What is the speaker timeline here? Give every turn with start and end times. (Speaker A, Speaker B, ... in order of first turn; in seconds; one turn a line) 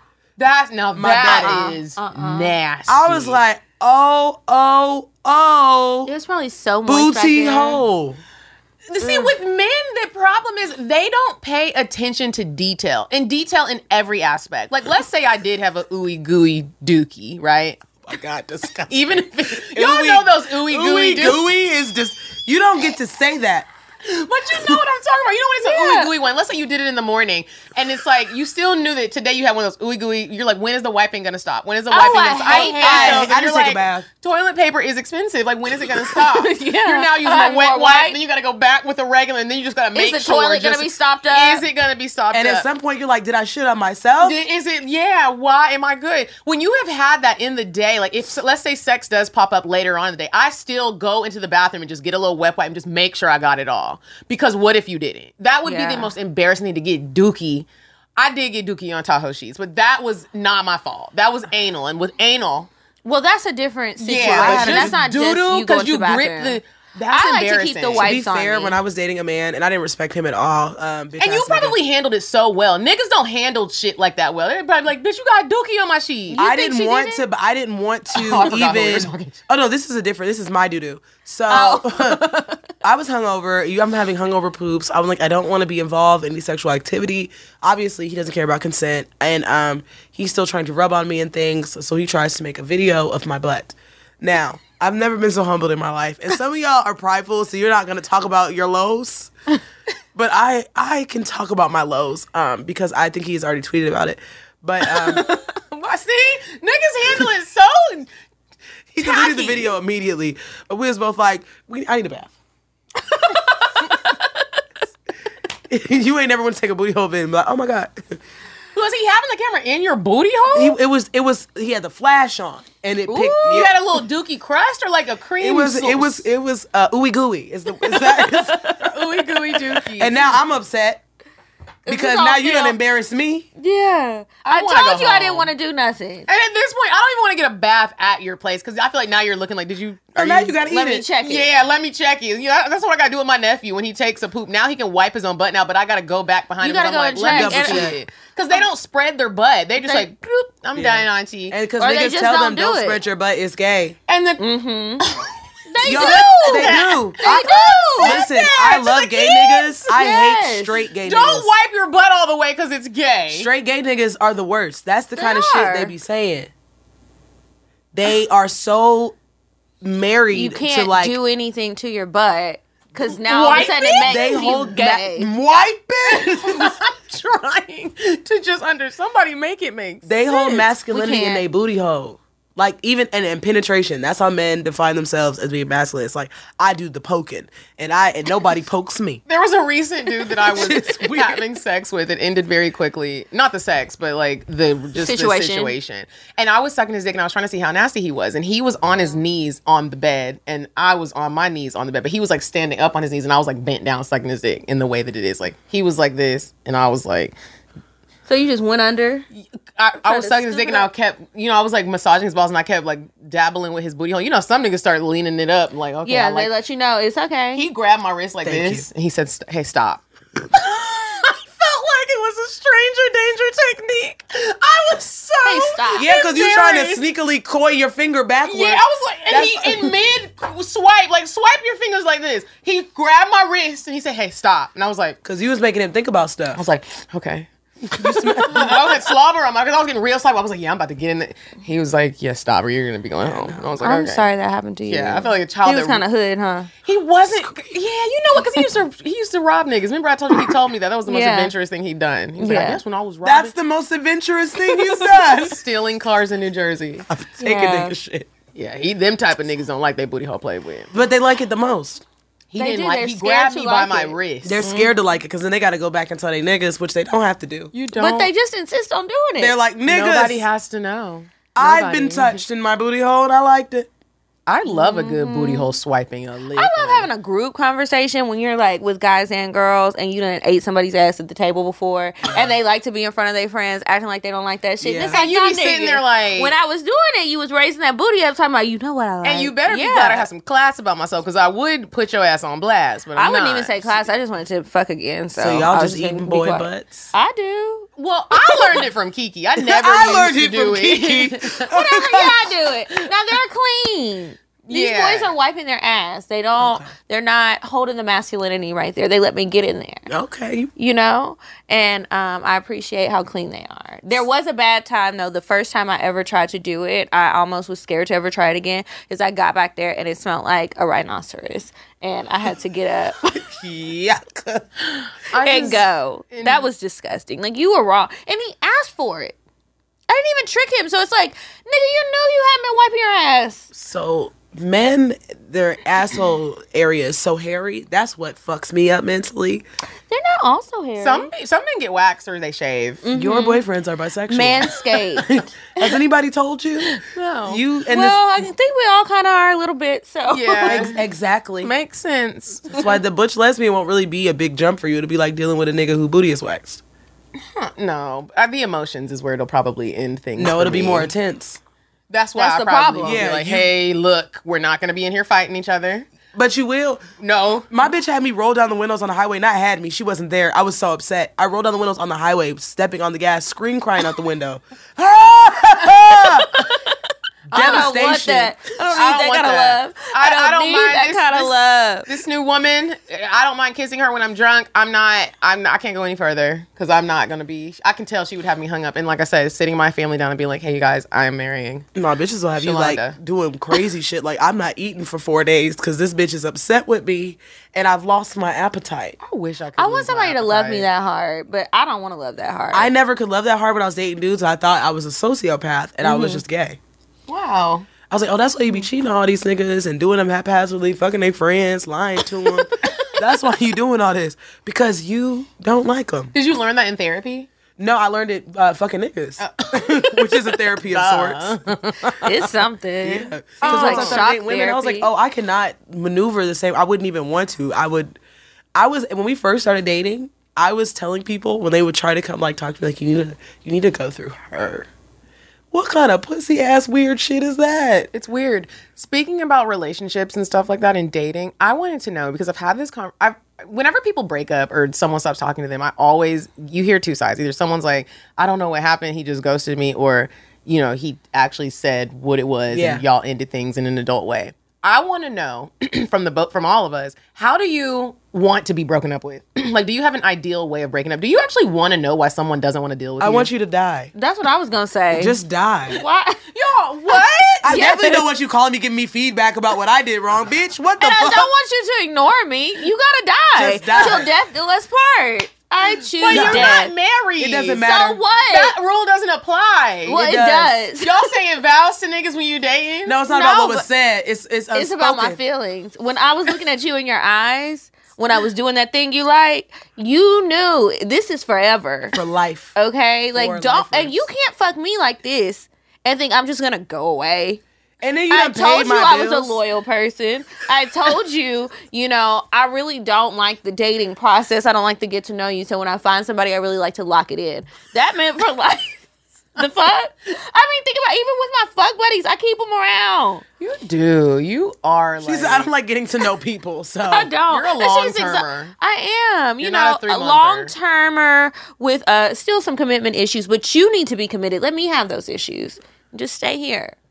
Speaker A: 0.4-3.4
Speaker B: 0.9-1.7
Speaker C: 1.2-2.5
Speaker B: 2.9-6.1
Speaker C: 6.0-7.8
Speaker B: 6.8-8.2
Speaker A: 8.9-17.9
Speaker C: 9.0-9.3
Speaker B: 18.0-23.7
Speaker A: 18.9-21.4
Speaker A: 24.0-42.7
Speaker C: 25.6-26.1
Speaker C: 31.9-33.3
Speaker B: 32.5-34.1
Speaker C: 36.1-38.2
Speaker C: 39.9-41.6
Speaker B: 42.3-44.4
Speaker A: 44.2-62.7
Speaker C: 55.6-56.1
Speaker C: 63.0-68.8
Speaker A: 64.0-68.1
Speaker B: 64.2-65.0
Speaker B: 68.0-71.8
Speaker A: 71.2-76.4
Speaker C: 76.3-77.2
Speaker B: 76.4-99.3
Speaker A: 78.1-79.4
Speaker C: 81.5-82.6
Speaker B: 100.1-105.3
Speaker A: 105.0-108.1
Speaker B: 108.9-112.3
Speaker A: 109.1-109.5
Speaker C: 113.1-114.2
Speaker B: 115.7-118.2
Speaker A: 118.7-120.8
Speaker B: 120.5-123.8
Speaker C: 123.1-123.7
Speaker A: 123.5-126.2
Speaker B: 125.4-128.8
Speaker C: 128.2-128.8
Speaker A: 128.8-130.3
Speaker B: 129.9-131.0
Speaker C: 131.8-132.8
Speaker B: 131.9-133.5
Speaker C: 133.6-136.3
Speaker A: 134.4-135.5
Speaker A: 136.3-140.6
Speaker B: 140.2-141.1
Speaker C: 140.7-141.5
Speaker A: 141.2-151.6
Speaker C: 146.6-147.9
Speaker B: 147.3-148.0
Speaker C: 149.8-150.1
Speaker B: 150.7-154.0
Speaker C: 151.8-153.0
Speaker A: 154.1-154.5
Speaker C: 154.4-155.0
Speaker A: 155.0-155.3
Speaker C: 155.7-158.2
Speaker A: 155.8-159.7
Speaker B: 155.8-161.5
Speaker C: 159.8-160.8
Speaker A: 161.0-163.5
Speaker B: 163.3-166.5
Speaker C: 165.2-165.9
Speaker B: 167.9-169.2
Speaker B: 169.8-171.2
Speaker C: 170.3-175.3
Speaker A: 173.1-174.6
Speaker B: 173.6-176.8
Speaker A: 176.1-180.6
Speaker B: 180.1-189.2
Speaker C: 180.9-181.4
Speaker A: 189.3-207.3
Speaker B: 190.4-191.4
Speaker C: 195.0-195.7
Speaker C: 208.3-209.3
Speaker A: 209.8-216.5
Speaker C: 210.0-210.9
Speaker C: 216.0-217.6
Speaker A: 217.5-227.0
Speaker B: 218.4-218.9
Speaker C: 225.4-226.1
Speaker B: 225.9-229.9
Speaker A: 228.4-235.2
Speaker B: 235.2-236.6
Speaker A: 236.6-244.3
Speaker B: 237.9-238.9
Speaker B: 243.2-243.7
Speaker C: 243.8-246.7
Speaker A: 244.9-246.0
Speaker A: 246.8-253.5
Speaker C: 251.1-251.5
Speaker C: 252.4-252.8
Speaker B: 253.2-255.6
Speaker A: 254.8-257.1
Speaker B: 257.1-258.3
Speaker C: 257.4-257.9
Speaker A: 258.5-260.9
Speaker B: 260.9-262.0
Speaker A: 262.5-264.7
Speaker C: 262.6-264.9
Speaker B: 264.4-267.7
Speaker A: 267.7-268.3
Speaker C: 267.9-269.6
Speaker B: 269.4-270.4
Speaker A: 269.9-272.4
Speaker B: 271.5-273.9
Speaker A: 274.5-277.1
Speaker C: 274.7-275.7
Speaker C: 276.6-290.3
Speaker B: 282.2-282.6
Speaker B: 284.8-285.2
Speaker A: 285.1-286.5
Speaker A: 289.2-293.9
Speaker C: 293.1-297.9
Speaker B: 295.4-297.1
Speaker A: 298.0-301.7
Speaker B: 299.6-302.3
Speaker C: 301.7-310.1
Speaker A: 304.7-305.3
Speaker B: 306.6-306.9
Speaker B: 310.1-310.7
Speaker C: 310.8-323.4
Speaker B: 323.4-324.6
Speaker A: 325.3-326.7
Speaker C: 325.4-329.4
Speaker C: 330.1-333.7
Speaker B: 333.7-339.6
Speaker C: 340.1-341.3
Speaker A: 341.0-343.0
Speaker C: 343.0-343.6
Speaker B: 343.1-346.9
Speaker C: 344.3-345.3
Speaker A: 347.0-347.6
Speaker B: 347.5-348.2
Speaker C: 347.9-350.9
Speaker A: 350.3-351.0
Speaker B: 350.6-351.7
Speaker A: 351.6-352.8
Speaker B: 352.7-356.8
Speaker A: 357.5-361.1
Speaker B: 360.4-361.6
Speaker A: 362.1-366.1
Speaker C: 362.4-363.2
Speaker B: 363.0-363.7
Speaker B: 366.3-367.0
Speaker A: 367.2-367.7
Speaker B: 367.7-376.6
Speaker C: 376.5-376.9
Speaker A: 377.5-377.9
Speaker B: 377.5-378.6
Speaker C: 377.5-382.1
Speaker A: 378.9-391.9
Speaker B: 391.9-399.2
Speaker A: 392.6-393.1
Speaker A: 399.2-400.9
Speaker C: 399.8-402.9
Speaker B: 402.7-406.8
Speaker C: 406.1-406.4
Speaker A: 407.3-407.9
Speaker B: 408.1-416.3
Speaker A: 412.8-413.1
Speaker A: 416.3-417.5
Speaker B: 417.8-421.6
Speaker A: 419.4-422.2
Speaker C: 422.2-425.1
Speaker B: 423.0-428.1
Speaker A: 423.6-424.2
Speaker B: 428.7-434.9
Speaker B: 435.7-438.1
Speaker A: 438.1-463.5
Speaker B: 452.7-453.0
Speaker B: 463.2-464.1
Speaker C: 464.1-465.4
Speaker B: 465.1-466.0
Speaker C: 465.9-466.4
Speaker A: 466.5-467.7
Speaker C: 467.1-468.2
Speaker B: 467.6-471.5
Speaker C: 471.0-476.9
Speaker B: 473.5-474.3
Speaker A: 476.1-477.9
Speaker B: 476.3-476.8
Speaker B: 477.4-478.2
Speaker C: 477.8-478.7
Speaker A: 478.4-480.2
Speaker C: 480.1-481.1
Speaker B: 480.1-480.8
Speaker A: 481.0-483.2
Speaker B: 483.0-485.4
Speaker C: 483.3-483.8
Speaker C: 484.7-492.2
Speaker B: 492.1-492.7
Speaker C: 492.8-497.6
Speaker B: 493.3-494.2
Speaker B: 498.0-499.6
Speaker C: 498.3-509.0
Speaker C: 509.6-513.4
Speaker A: 513.6-515.7
Speaker B: 515.2-517.3
Speaker C: 517.1-526.9
Speaker A: 517.5-518.7
Speaker A: 519.6-520.7